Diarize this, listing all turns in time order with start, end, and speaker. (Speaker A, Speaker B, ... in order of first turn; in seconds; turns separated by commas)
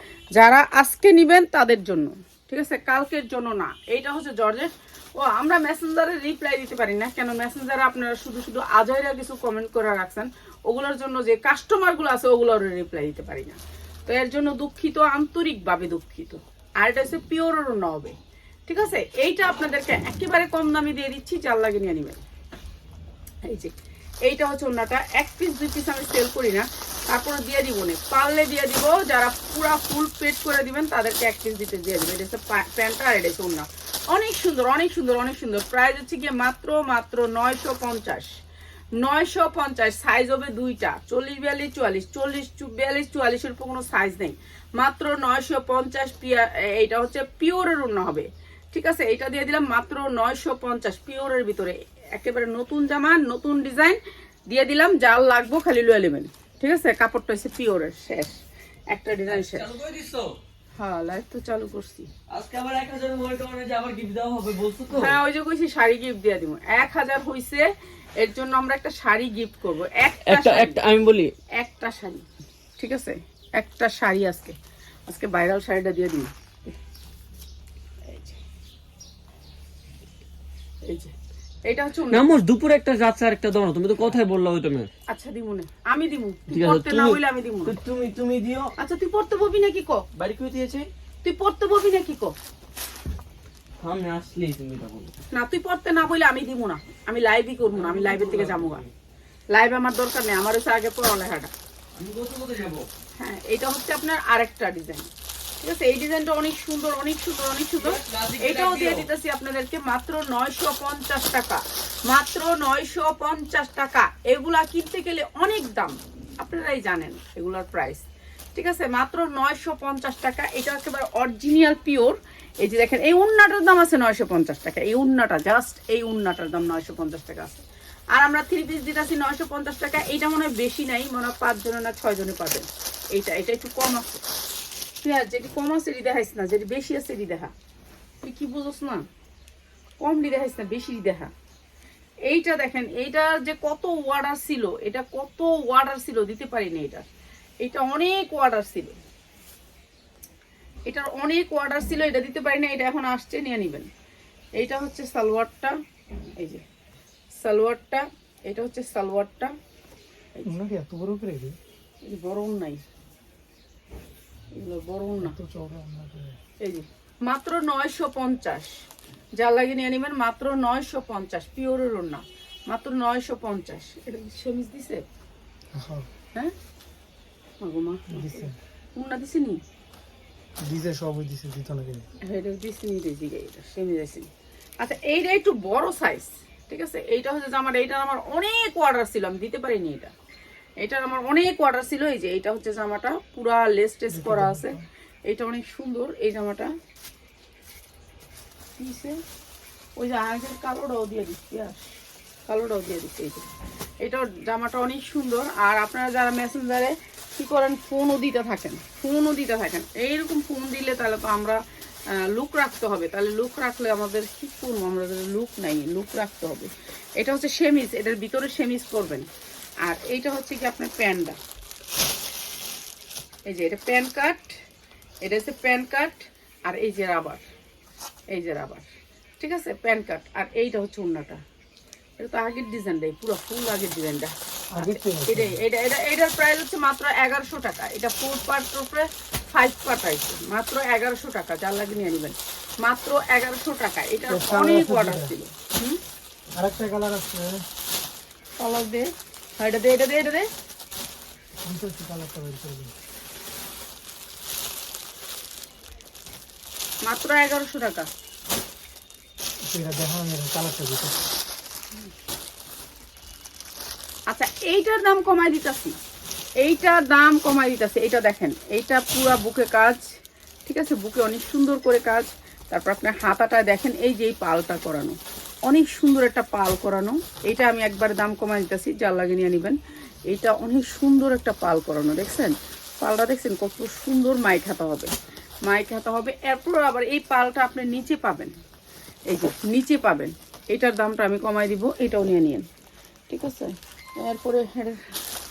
Speaker A: 0.3-18.2, Speaker A: 18.7-22.2, Speaker A: 23.4-23.7, Speaker A: 24.2-38.3, Speaker A: 39.0-58.4, Speaker A: 58.9-59.7, Speaker B: 59.3-60.4, Speaker A: 60.8-62.1, Speaker B: 62.3-65.2, Speaker A: 64.9-70.8, Speaker B: 70.3-71.3, Speaker A: 71.6-72.3, Speaker A: 72.8-76.8, Speaker A: 78.1-78.4, Speaker A: 80.9-81.2, Speaker A: 81.7-82.3, Speaker B: 82.1-84.9, Speaker A: 85.1-87.8, Speaker B: 86.5-88.7, Speaker A: 88.8-90.0, Speaker B: 90.2-90.9, Speaker A: 91.2-92.3, Speaker B: 93.8-95.1, Speaker A: 95.3-98.8, Speaker B: 97.8-98.9, Speaker A: 99.5-101.5, Speaker B: 102.0-102.9, Speaker A: 103.2-105.1, Speaker A: 105.6-118.0, Speaker B: 107.8-109.1, Speaker A: 118.6-134.2, Speaker A: 135.0-137.5, Speaker A: 138.2-139.1, Speaker A: 140.0-141.3, Speaker A: 142.3-147.1, Speaker A: 147.6-149.0, Speaker A: 150.9-153.9, Speaker A: 154.6-155.8, Speaker A: 156.4-156.7, Speaker A: 157.3-159.6, Speaker C: 160.4-161.6, Speaker A: 162.0-162.8, Speaker A: 164.5-165.4, Speaker C: 165.2-166.4, Speaker A: 166.6-168.8, Speaker A: 169.4-175.1, Speaker C: 175.7-176.1, Speaker A: 177.6-179.6, Speaker C: 178.1-178.6, Speaker C: 180.6-182.1, Speaker A: 182.3-184.3, Speaker A: 184.8-190.1, Speaker A: 190.8-196.7, Speaker C: 194.1-194.8, Speaker A: 198.8-199.2, Speaker A: 200.0-201.9, Speaker A: 202.5-203.5, Speaker A: 204.0-211.6, Speaker A: 212.1-219.3, Speaker A: 219.8-221.4, Speaker A: 223.5-224.5, Speaker A: 225.2-227.4, Speaker A: 228.3-228.9, Speaker A: 229.4-231.4, Speaker A: 232.2-246.0, Speaker C: 234.8-235.6, Speaker C: 244.3-245.3, Speaker C: 246.6-247.7, Speaker A: 248.6-250.5, Speaker C: 251.6-252.9, Speaker A: 257.1-258.1, Speaker C: 259.6-261.3, Speaker A: 264.3-266.0, Speaker A: 266.6-270.1, Speaker A: 270.7-285.1, Speaker A: 285.6-288.6, Speaker A: 289.3-292.7, Speaker A: 293.3-295.0